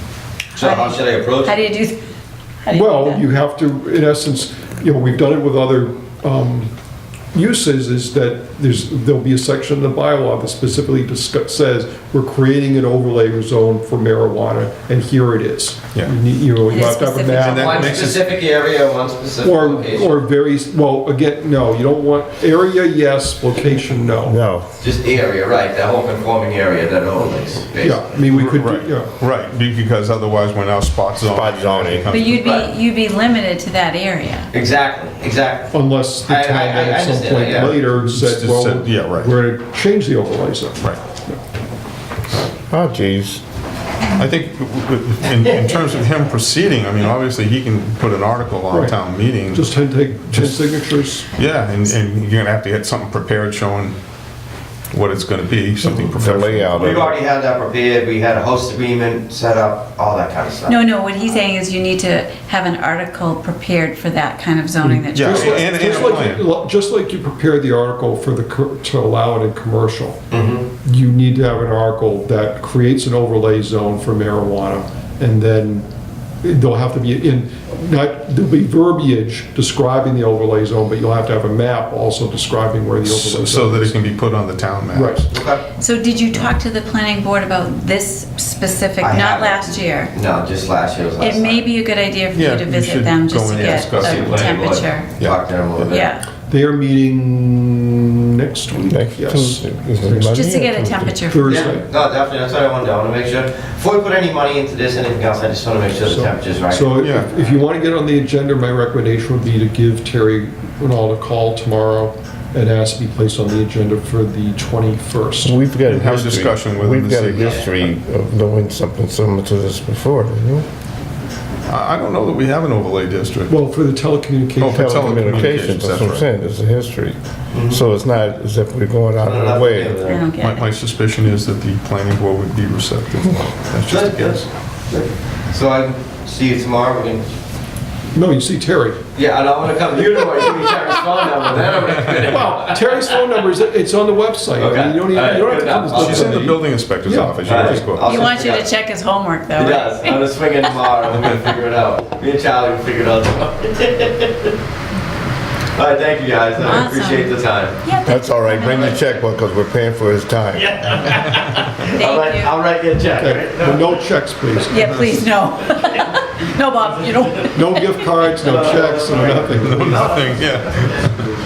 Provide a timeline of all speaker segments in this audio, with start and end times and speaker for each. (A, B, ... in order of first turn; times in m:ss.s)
0:00.6-0:01.7 A
0:00.6-0:02.0 B
0:02.6-0:03.2 B
0:02.7-0:06.7 C
0:07.3-0:18.2 C
0:16.7-0:17.9 B
0:17.3-0:18.3 D
0:17.6-0:20.1 A
0:19.4-0:24.4 C
0:24.2-0:24.8 E
0:24.8-0:28.1 A
0:27.8-0:29.1 C
0:28.3-0:32.4 D
0:31.2-0:32.2 E
0:32.1-0:34.5 B
0:32.3-0:32.7 A
0:34.5-0:37.8 A
0:35.7-0:41.4 C
0:37.9-0:39.4 D
0:42.7-0:43.4 E
0:44.2-0:49.7 D
0:48.7-0:49.0 C
0:49.5-0:51.2 C
0:50.3-0:50.6 D
0:51.3-0:54.0 D
0:54.9-0:57.0 D
0:56.0-0:57.1 E
0:56.8-1:00.8 A
1:00.7-1:06.3 B
1:04.8-1:10.2 C
1:05.1-1:06.5 D
1:10.3-1:10.7 A
1:10.8-1:15.8 C
1:16.4-1:24.0 C
1:23.0-1:25.2 D
1:24.9-1:25.3 C
1:25.3-1:25.6 A
1:25.8-1:30.1 B
1:29.0-1:31.6 A
1:31.2-1:35.1 B
1:32.3-1:35.9 D
1:33.6-1:36.1 A
1:35.9-1:36.2 B
1:36.5-1:40.4 C
1:38.9-1:41.2 E
1:40.3-1:41.7 B
1:41.2-1:41.9 C
1:41.4-1:47.0 A
1:46.1-1:55.5 C
1:47.0-1:47.3 D
1:55.4-2:00.6 E
1:55.8-1:57.9 D
2:01.7-2:03.6 D
2:03.5-2:04.8 C
2:04.6-2:06.3 D
2:04.6-2:10.0 E
2:07.5-2:07.8 A
2:09.2-2:10.2 A
2:10.0-2:10.6 B
2:10.4-2:14.5 D
2:13.9-2:14.4 A
2:15.5-2:17.3 A
2:18.1-2:19.0 C
2:19.1-2:23.2 A
2:20.0-2:28.3 C
2:24.5-2:26.3 A
2:25.9-2:28.0 D
2:27.4-2:28.7 A
2:28.0-2:30.3 B
2:29.5-2:34.5 A
2:35.7-2:37.8 A
2:36.6-2:39.2 B
2:38.0-2:40.9 E
2:40.6-2:44.0 A
2:41.8-2:42.6 B
2:43.2-2:45.1 C
2:44.7-2:48.4 B
2:47.5-2:50.3 C
2:48.4-2:51.0 A
2:49.6-2:51.2 D